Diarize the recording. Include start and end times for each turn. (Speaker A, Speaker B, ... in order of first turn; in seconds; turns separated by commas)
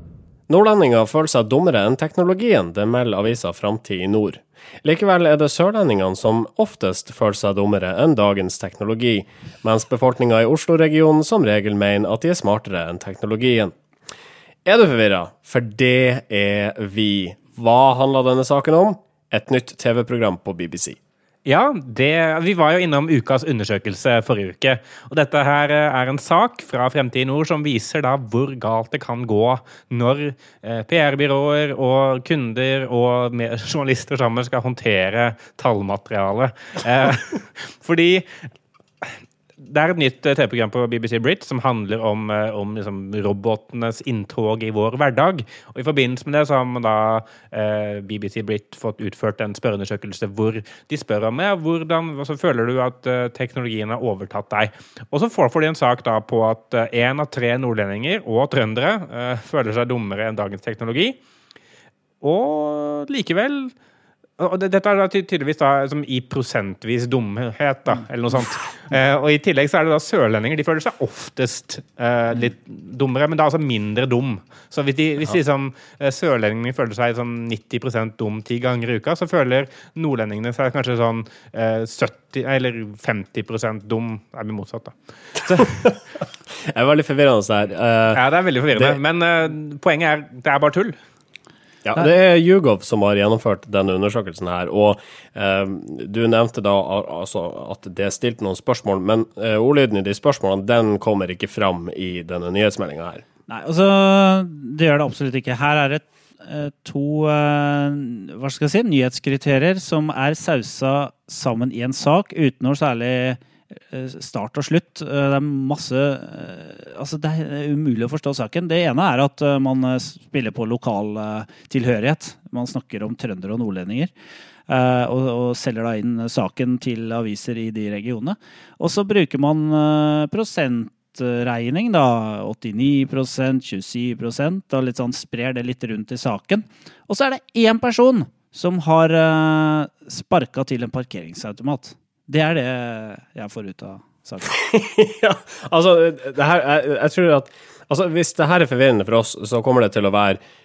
Speaker A: 0.5-13.7, Speaker A: 14.7-21.0, Speaker B: 21.4-38.3, Speaker B: 39.0-61.2, Speaker B: 62.2-63.7, Speaker B: 64.4-85.7, Speaker A: 85.6-86.0, Speaker A: 86.7-88.2, Speaker B: 88.1-91.0, Speaker A: 91.8-103.2, Speaker C: 103.5-124.1, Speaker C: 124.7-144.5, Speaker A: 144.5-150.4